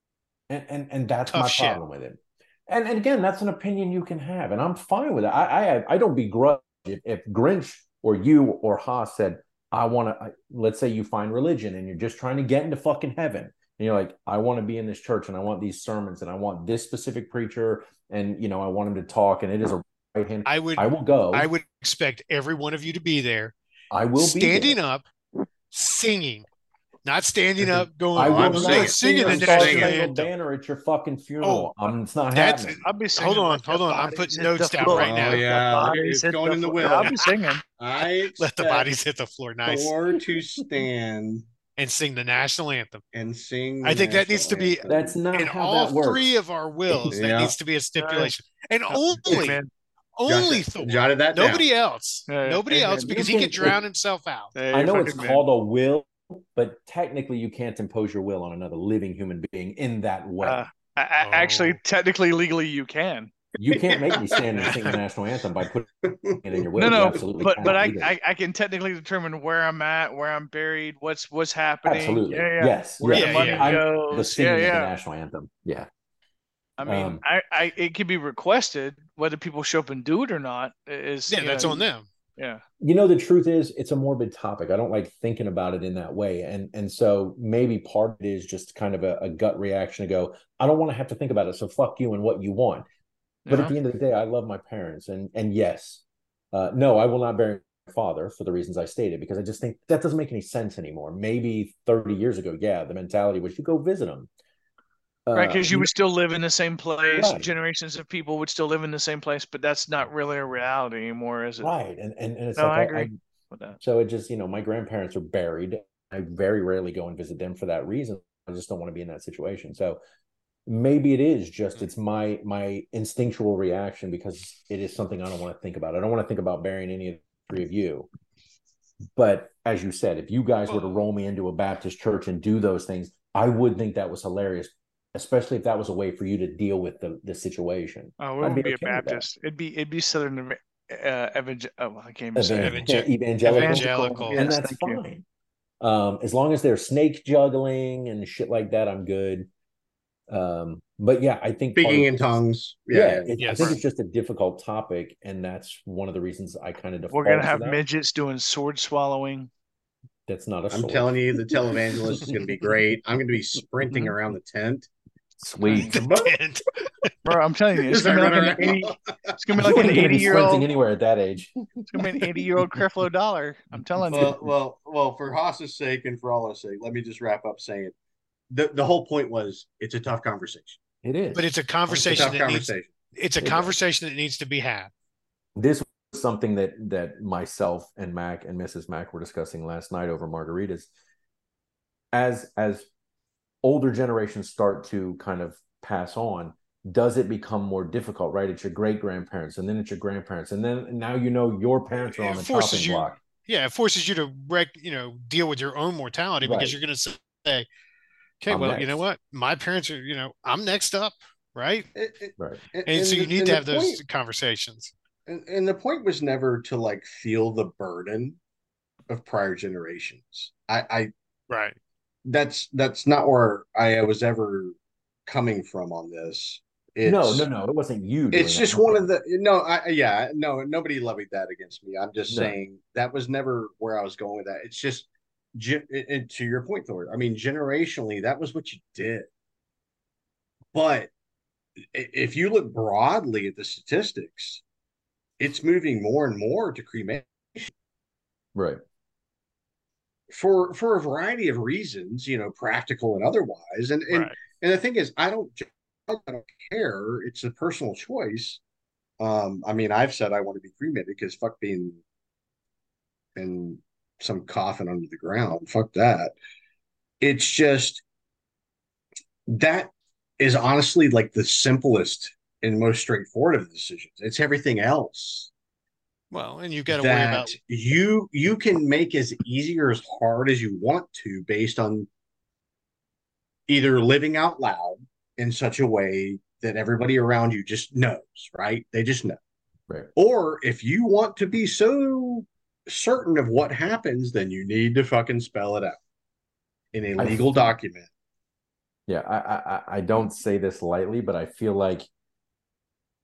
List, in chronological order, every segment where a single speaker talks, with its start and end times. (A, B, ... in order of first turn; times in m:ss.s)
0:00.5-0:21.5 A
0:01.3-0:01.8 B
0:20.4-0:23.6 B
0:23.9-0:24.8 A
0:24.2-0:25.1 B
0:25.7-0:26.5 B
0:27.0-0:30.3 B
0:27.6-0:30.0 C
0:28.2-0:32.8 A
0:31.4-0:31.7 B
0:32.3-0:35.5 B
0:32.8-0:37.6 D
0:34.9-0:37.2 C
0:37.0-0:37.6 B
0:37.8-0:38.9 C
0:38.4-0:39.9 B
0:39.6-0:41.5 C
0:41.8-0:43.0 B
0:43.1-0:45.2 C
0:43.8-0:49.6 B
0:44.9-0:46.3 A
0:47.1-0:47.5 C
0:48.0-0:48.3 D
0:48.9-0:49.7 D
0:50.2-0:54.5 B
0:50.3-0:51.7 C
0:52.3-0:53.4 D
0:53.0-0:53.8 A
0:54.6-0:55.4 D
0:54.7-1:00.6 A
1:00.4-1:03.3 D
1:01.2-1:01.8 B
1:03.6-1:05.9 A
1:03.7-1:04.7 C
1:04.6-1:04.9 B
1:06.0-1:07.8 C
1:06.4-1:08.1 A
1:06.8-1:14.9 D
1:11.8-1:15.9 A
1:13.1-1:13.8 B
1:16.8-1:21.9 D
1:16.9-1:17.2 A
1:21.3-1:22.0 B
1:22.4-1:22.6 D
1:22.8-1:32.8 A
1:33.5-1:33.7 D
1:33.5-1:44.3 A
1:45.3-1:45.9 A
1:45.3-1:51.7 D
1:47.1-1:47.5 A
1:51.6-1:53.1 A
1:52.6-1:53.8 D
1:53.8-2:00.0 A
2:00.7-2:08.1 A
2:09.2-2:19.2 A
2:18.2-2:22.9 D
2:22.4-2:25.2 A
2:22.6-2:24.5 B
2:23.4-2:25.0 D
2:25.8-2:29.5 A
2:30.3-2:32.1 A
2:31.8-2:33.3 C
2:32.9-2:37.8 A
2:33.4-2:33.8 B
2:37.1-2:39.5 D
2:40.3-2:41.1 A
2:40.7-2:44.9 C
2:42.0-2:42.6 A
2:45.4-2:46.3 A
2:45.7-2:45.9 D
2:45.9-2:47.1 B
2:47.2-2:50.7 D
2:47.9-2:48.8 B
2:47.9-2:49.1 C
2:49.6-2:52.4 A
2:51.9-2:54.3 D
2:54.0-2:54.5 A
2:54.1-2:57.9 C
2:58.5-3:00.8 C
3:01.0-3:02.4 A
3:01.3-3:04.9 B
3:02.0-3:02.9 C
3:03.4-3:03.8 A
3:05.6-3:10.9 A
3:12.1-3:12.9 A
3:13.6-3:23.2 A
3:22.3-3:27.7 B
3:26.4-3:26.8 A
3:28.4-3:31.9 B
3:28.5-3:29.0 A
3:32.0-3:34.0 C
3:32.9-3:34.9 B
3:35.3-3:38.4 C
3:39.1-3:41.1 C
3:41.5-3:41.8 B
3:42.2-3:44.8 C
3:45.3-3:47.5 C
3:47.0-3:49.1 A
3:48.3-3:59.3 C
3:52.3-3:52.6 A
4:00.7-4:01.1 C
4:01.9-4:04.6 C
4:05.4-4:07.7 C
4:08.6-4:08.8 A
4:10.3-4:18.6 C
4:14.1-4:14.3 B
4:19.2-4:22.0 C
4:23.4-4:26.4 C
4:27.2-4:28.0 C
4:29.5-4:35.5 C
4:36.3-4:37.6 B
4:36.9-4:42.1 C
4:43.7-4:49.4 C
4:50.2-4:56.0 C
4:56.9-4:58.1 C
4:57.2-4:57.7 A
4:59.1-5:02.1 A